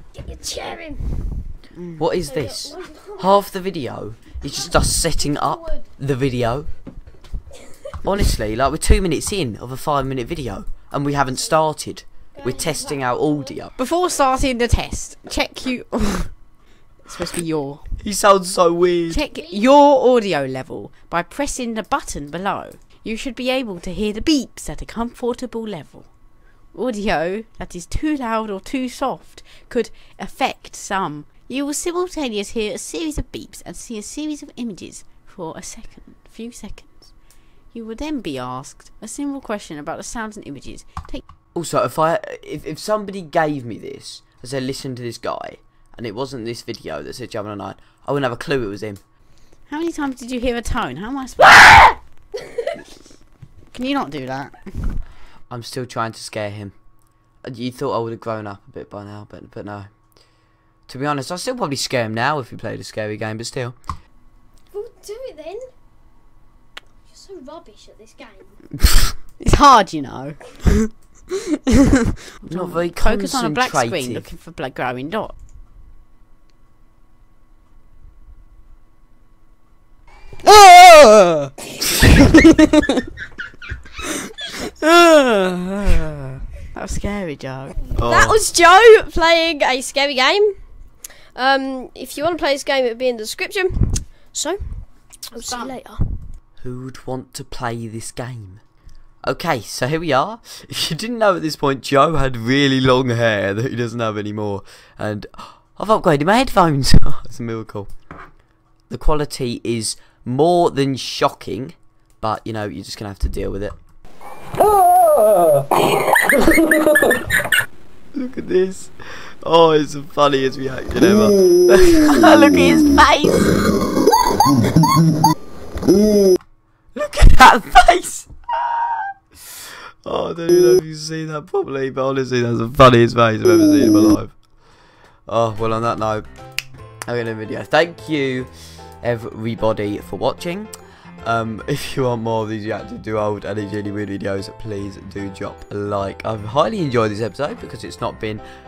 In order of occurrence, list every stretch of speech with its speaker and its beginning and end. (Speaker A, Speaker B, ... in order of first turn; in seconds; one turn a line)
Speaker A: 0.1-1.5
Speaker B: 1.7-2.1
Speaker C: 2.0-6.7
Speaker A: 2.2-3.4
Speaker A: 5.2-5.8
Speaker C: 8.0-13.7
Speaker A: 12.3-13.6
Speaker B: 13.8-16.4
Speaker B: 17.0-17.9
Speaker C: 18.0-19.2
Speaker B: 19.1-26.1
Speaker A: 19.3-19.7
Speaker B: 26.7-37.2
Speaker B: 37.7-41.2
Speaker C: 41.5-49.0
Speaker B: 49.7-52.0
Speaker B: 53.7-55.0
Speaker C: 55.5-56.7
Speaker C: 57.4-59.9
Speaker C: 60.9-63.8
Speaker A: 64.7-65.7
Speaker A: 67.1-68.6
Speaker B: 69.4-71.0
Speaker B: 72.4-75.3
Speaker C: 72.5-74.3
Speaker B: 80.5-82.8
Speaker B: 84.6-87.8
Speaker C: 87.9-88.4
Speaker A: 88.0-90.6
Speaker A: 91.3-96.3
Speaker B: 95.3-95.7
Speaker C: 96.6-98.6
Speaker C: 99.2-107.9
Speaker C: 108.9-113.8
Speaker C: 118.1-123.6
Speaker C: 126.9-134.4
Speaker C: 135.3-136.2
Speaker C: 137.1-140.7
Speaker C: 141.2-148.4